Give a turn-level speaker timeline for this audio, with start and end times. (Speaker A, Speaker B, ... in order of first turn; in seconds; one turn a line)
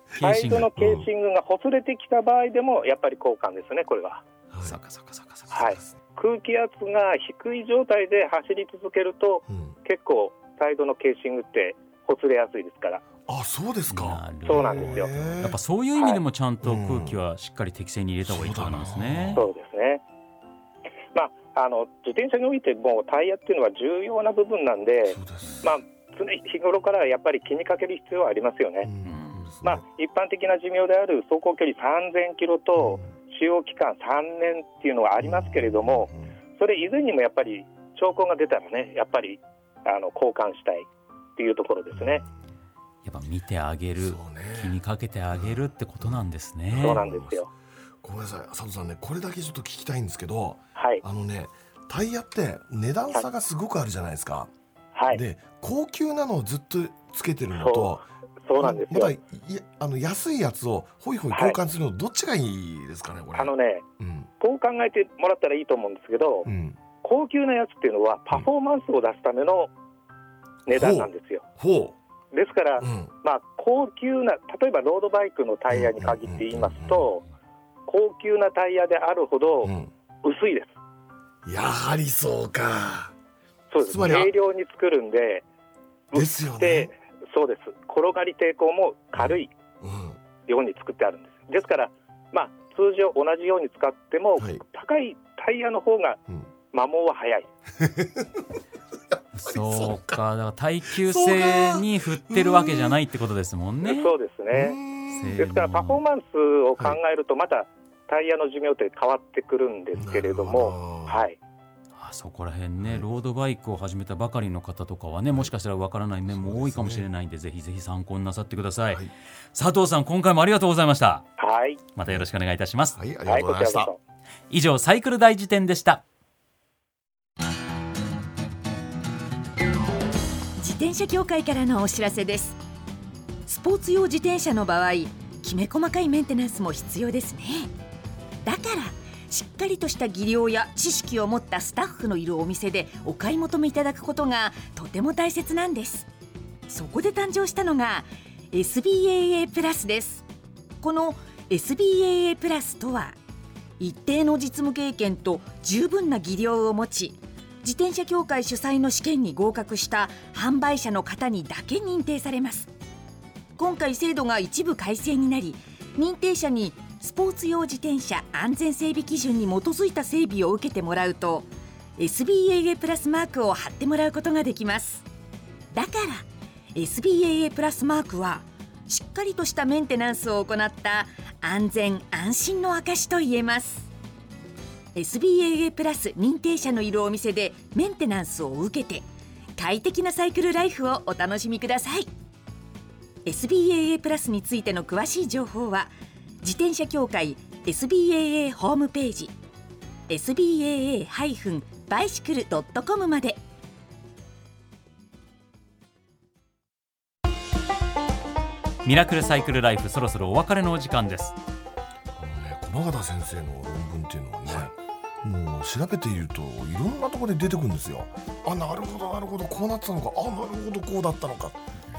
Speaker A: 0.2-0.7
Speaker B: 0.2-4.2
Speaker C: 0.8-1.1
Speaker C: 4.5-4.8
Speaker A: 4.6-5.6
Speaker C: 5.5-6.0
Speaker B: 5.5-13.1
Speaker C: 9.5-9.8
Speaker C: 13.2-15.6
Speaker A: 13.9-19.5
Speaker B: 14.4-15.2
Speaker C: 16.6-17.2
Speaker C: 18.2-19.4
Speaker B: 19.4-20.0
Speaker B: 21.1-28.9
Speaker C: 25.1-25.7
Speaker A: 25.4-25.7
Speaker C: 28.8-29.9
Speaker A: 29.0-29.6
Speaker B: 29.6-42.2
Speaker C: 32.8-33.1
Speaker C: 35.2-36.4
Speaker C: 41.9-42.3
Speaker A: 43.0-47.1
Speaker C: 44.0-44.8
Speaker C: 45.3-47.5
Speaker B: 46.8-47.5
Speaker C: 48.0-54.5
Speaker B: 50.8-51.0
Speaker B: 55.0-55.2
Speaker C: 55.1-58.0
Speaker B: 57.6-59.1
Speaker C: 58.6-64.3
Speaker B: 61.3-61.6
Speaker B: 63.4-63.9
Speaker B: 64.4-66.5
Speaker C: 66.5-66.8
Speaker B: 67.0-69.7
Speaker B: 70.7-71.5
Speaker C: 70.7-72.0
Speaker B: 72.3-77.2
Speaker C: 72.8-73.1
Speaker C: 75.7-77.1
Speaker B: 77.9-80.8
Speaker C: 79.6-79.9
Speaker C: 81.4-83.2
Speaker B: 83.7-85.4
Speaker C: 83.8-84.3
Speaker B: 86.1-89.5
Speaker C: 86.1-86.9
Speaker C: 89.2-90.2
Speaker B: 90.5-97.5
Speaker C: 94.4-94.6
Speaker C: 97.8-98.5
Speaker C: 99.1-100.2
Speaker A: 99.3-104.1
Speaker C: 100.9-103.0
Speaker B: 103.9-104.8
Speaker C: 104.5-105.5
Speaker A: 105.1-106.0
Speaker B: 105.4-111.4
Speaker C: 109.9-111.3
Speaker A: 112.0-121.3
Speaker C: 112.8-113.1
Speaker C: 116.3-117.1
Speaker B: 121.4-121.8
Speaker A: 122.0-123.0
Speaker C: 122.0-122.3
Speaker C: 123.0-123.9
Speaker B: 123.3-124.0
Speaker A: 124.5-126.0
Speaker D: 130.6-132.6
Speaker D: 133.5-137.7
Speaker D: 138.4-146.1
Speaker D: 146.7-150.2
Speaker D: 150.8-153.2
Speaker D: 153.8-162.7
Speaker D: 163.6-175.1
Speaker D: 175.7-183.9
Speaker D: 184.9-192.1
Speaker D: 193.3-199.4
Speaker D: 200.1-203.4
Speaker A: 208.8-211.4
Speaker C: 212.2-221.6